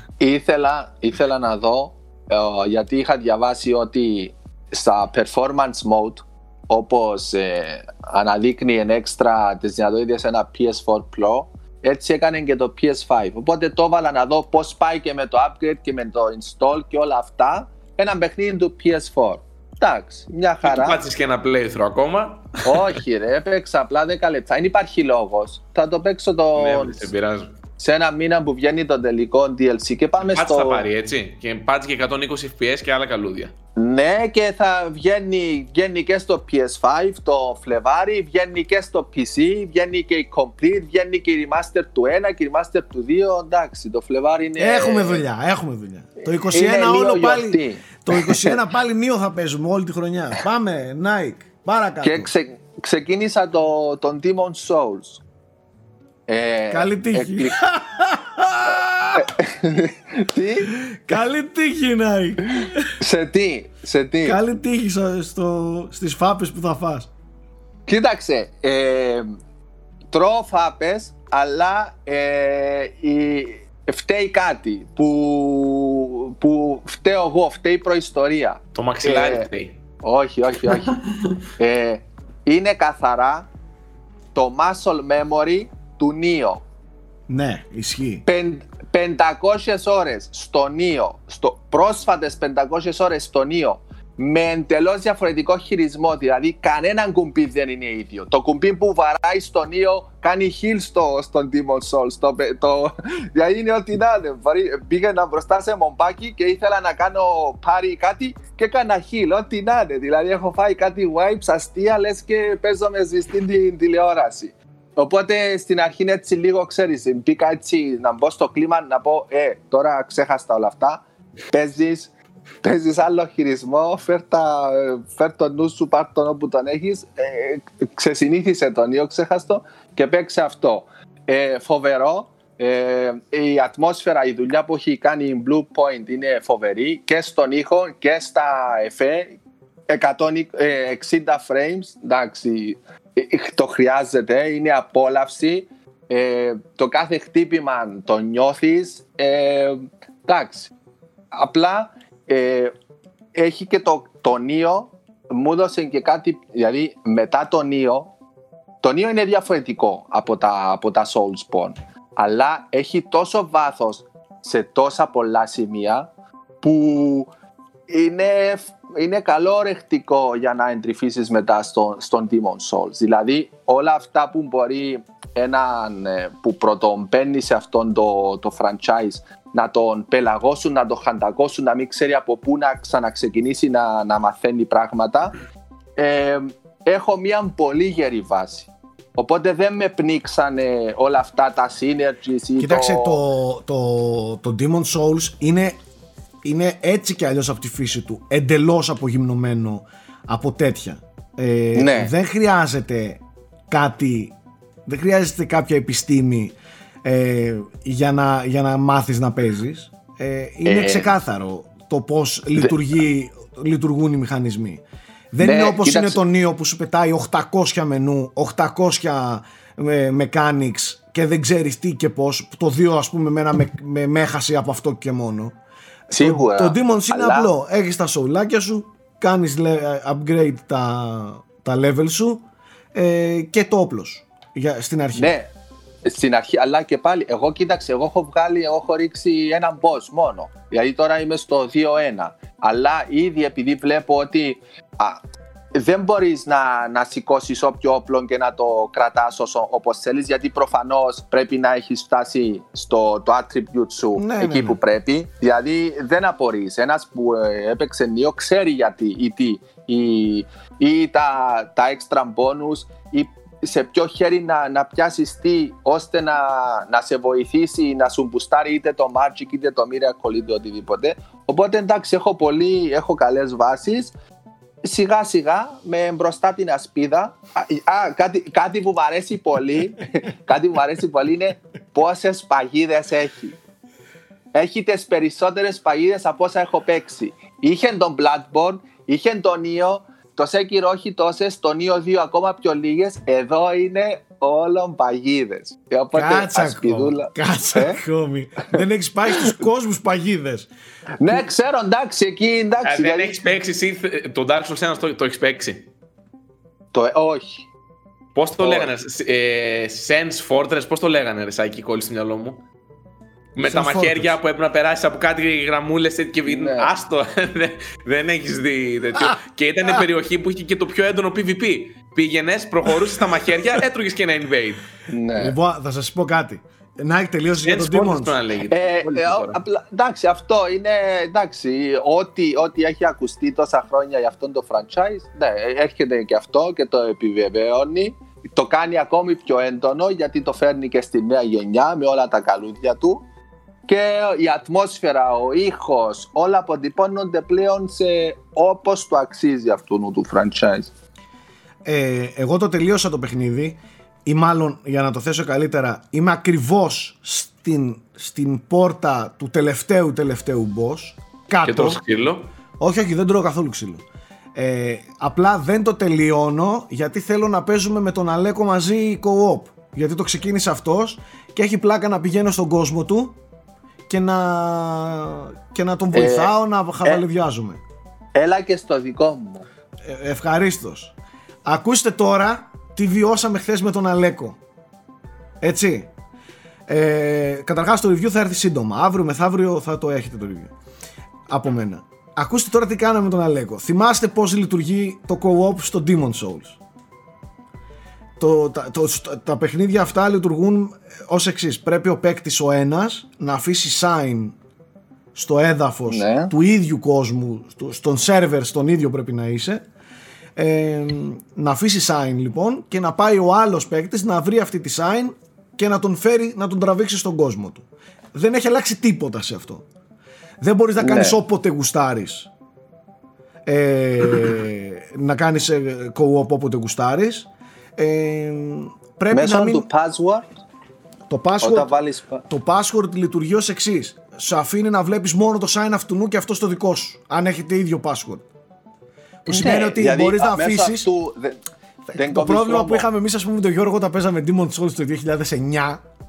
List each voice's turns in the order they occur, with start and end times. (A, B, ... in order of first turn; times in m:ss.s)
0:00.2-0:21.0 A
0:20.6-0:23.0 B
0:22.6-0:27.1 A
0:26.5-0:27.5 B
0:27.8-0:30.9 A
0:30.2-0:33.5 B
0:33.8-0:45.2 A
0:44.6-0:52.3 C
0:46.3-0:48.6 A
0:52.0-0:55.2 A
0:56.3-0:57.6 A
0:56.7-0:59.3 C
0:59.1-1:00.7 A
1:00.8-1:02.9 C
1:03.0-1:04.4 A
1:04.2-1:07.1 C
1:07.9-1:09.3 A
1:10.1-1:19.4 A
1:18.7-1:19.8 B
1:20.0-1:21.0 A
1:21.6-1:23.5 A
1:24.3-1:26.6 A
1:27.3-1:28.2 C
1:28.2-2:19.4 A
2:19.9-2:30.7 A
2:31.3-2:32.7 A
2:33.3-2:38.1 A
2:38.8-2:46.1 A
2:46.6-2:47.3 A
2:47.9-3:05.3 A
3:06.0-3:13.2 A
3:12.6-3:15.8 C
3:16.4-3:24.3 C
3:21.7-3:22.1 A
3:24.9-3:34.8 C
3:30.6-3:31.1 A
3:35.3-3:45.6 C
3:35.4-3:36.2 A
3:46.1-3:55.3 C
3:46.1-3:47.5 A
3:55.1-3:55.5 A
3:56.0-4:05.2 A
4:05.7-4:34.1 A
4:14.2-4:14.8 C
4:34.8-4:43.6 A
4:44.5-4:58.0 A
4:56.1-5:00.7 C
5:01.2-5:03.4 A
5:02.8-5:05.9 B
5:06.9-5:07.6 A
5:08.4-5:12.6 B
5:08.6-5:08.9 A
5:13.6-5:24.8 B
5:13.6-5:14.4 C
5:16.5-5:16.9 A
5:25.1-5:25.6 A
5:25.4-5:28.4 C
5:27.6-5:29.6 B
5:28.7-5:43.2 A
5:43.9-5:50.9 A
5:51.8-6:02.0 C
6:01.6-6:02.5 B
6:02.8-6:04.0 C
6:04.6-6:13.4 C
6:14.1-6:17.8 C
6:16.1-6:16.5 A
6:18.3-6:19.6 A
6:20.0-6:21.1 C
6:21.6-6:24.6 C
6:25.6-6:26.1 C
6:26.9-6:30.7 C
6:31.5-6:36.8 C
6:38.4-6:44.6 C
6:45.3-6:49.8 C
6:46.1-6:46.5 A
6:50.6-6:59.8 C
7:00.6-7:02.5 C
7:01.0-7:01.4 A
7:03.6-7:09.9 C
7:09.3-7:10.6 A
7:11.3-7:11.9 C
7:11.6-7:12.4 A
7:12.5-7:18.4 C
7:19.4-7:21.1 C
7:19.4-7:21.6 A
7:22.1-7:26.0 C
7:22.1-7:23.0 A